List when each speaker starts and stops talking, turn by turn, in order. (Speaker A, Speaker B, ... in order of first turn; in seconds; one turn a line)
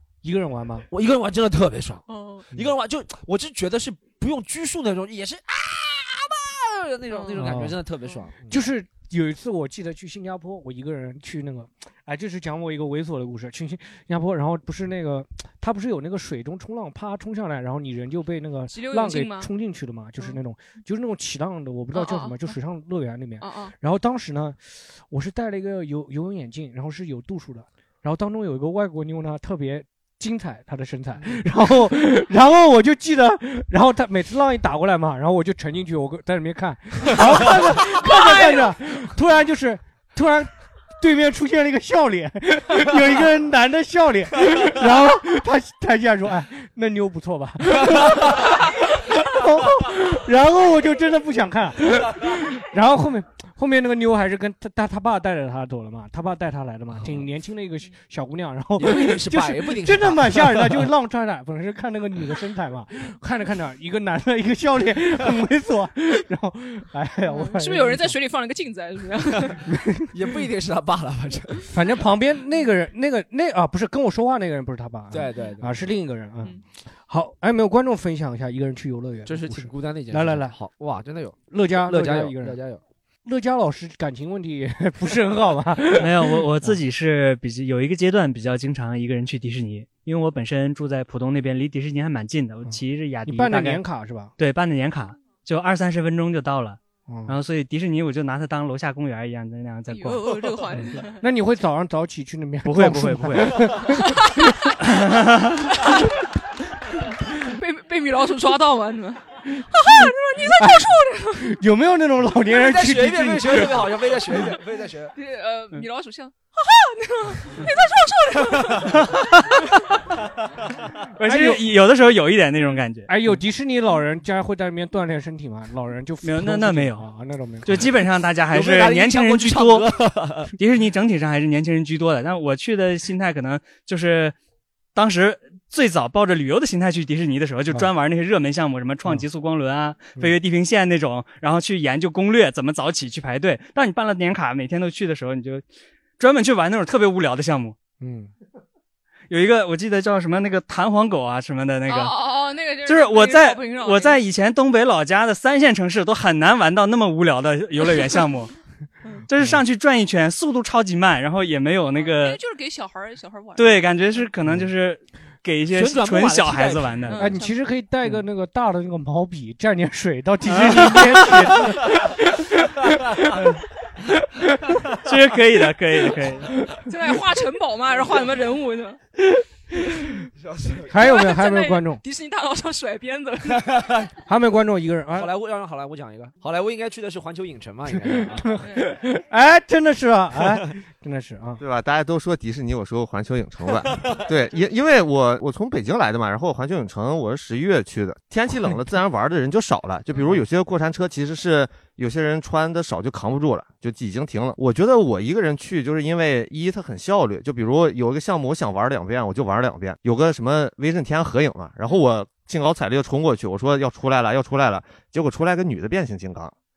Speaker A: 0.2-0.9
Speaker B: 0.9-8.6
Speaker C: 2.1-2.5
Speaker C: 7.1-7.6
Speaker A: 7.4-7.8
Speaker A: 8.5-68.2
Speaker C: 18.7-19.5
Speaker C: 21.9-22.6
Speaker C: 23.4-23.7
Speaker C: 38.2-38.6
Speaker B: 58.8-60.9
Speaker C: 67.3-69.6
Speaker A: 69.7-70.1
Speaker B: 70.1-71.7
Speaker A: 71.7-80.5
Speaker B: 75.1-75.9
Speaker B: 79.2-82.8
Speaker A: 81.5-82.6
Speaker A: 83.2-86.8
Speaker D: 85.9-93.8
Speaker A: 92.7-94.3
Speaker D: 94.4-100.5
Speaker A: 97.1-97.3
Speaker C: 99.9-101.2
Speaker A: 101.0-104.4
Speaker D: 102.6-103.7
Speaker C: 103.7-104.7
Speaker D: 104.8-105.6
Speaker C: 105.8-106.1
Speaker C: 107.3-111.6
Speaker A: 109.8-114.0
Speaker B: 112.5-115.1
Speaker C: 115.1-119.3
Speaker D: 121.2-123.1
Speaker A: 121.2-121.7
Speaker A: 123.1-127.9
Speaker D: 126.2-127.1
Speaker D: 127.6-130.0
Speaker B: 128.5-130.5
Speaker D: 130.5-134.3
Speaker D: 134.9-145.6
Speaker D: 146.2-147.8
Speaker A: 148.0-148.3
Speaker D: 149.3-152.2
Speaker C: 151.9-154.2
Speaker D: 152.8-158.5
Speaker D: 159.3-162.4
Speaker C: 161.9-164.3
Speaker D: 163.6-167.3
Speaker A: 164.4-164.7
Speaker B: 165.7-167.2
Speaker C: 167.1-167.6
Speaker A: 167.2-173.5
Speaker D: 170.5-171.0
Speaker D: 175.0-176.5
Speaker C: 176.8-179.0
Speaker B: 180.4-180.9
Speaker A: 180.9-182.0
Speaker C: 180.9-183.8
Speaker B: 183.6-184.1
Speaker A: 184.2-185.3
Speaker B: 185.1-188.5
Speaker A: 187.9-191.6
Speaker C: 188.6-188.9
Speaker E: 191.6-216.5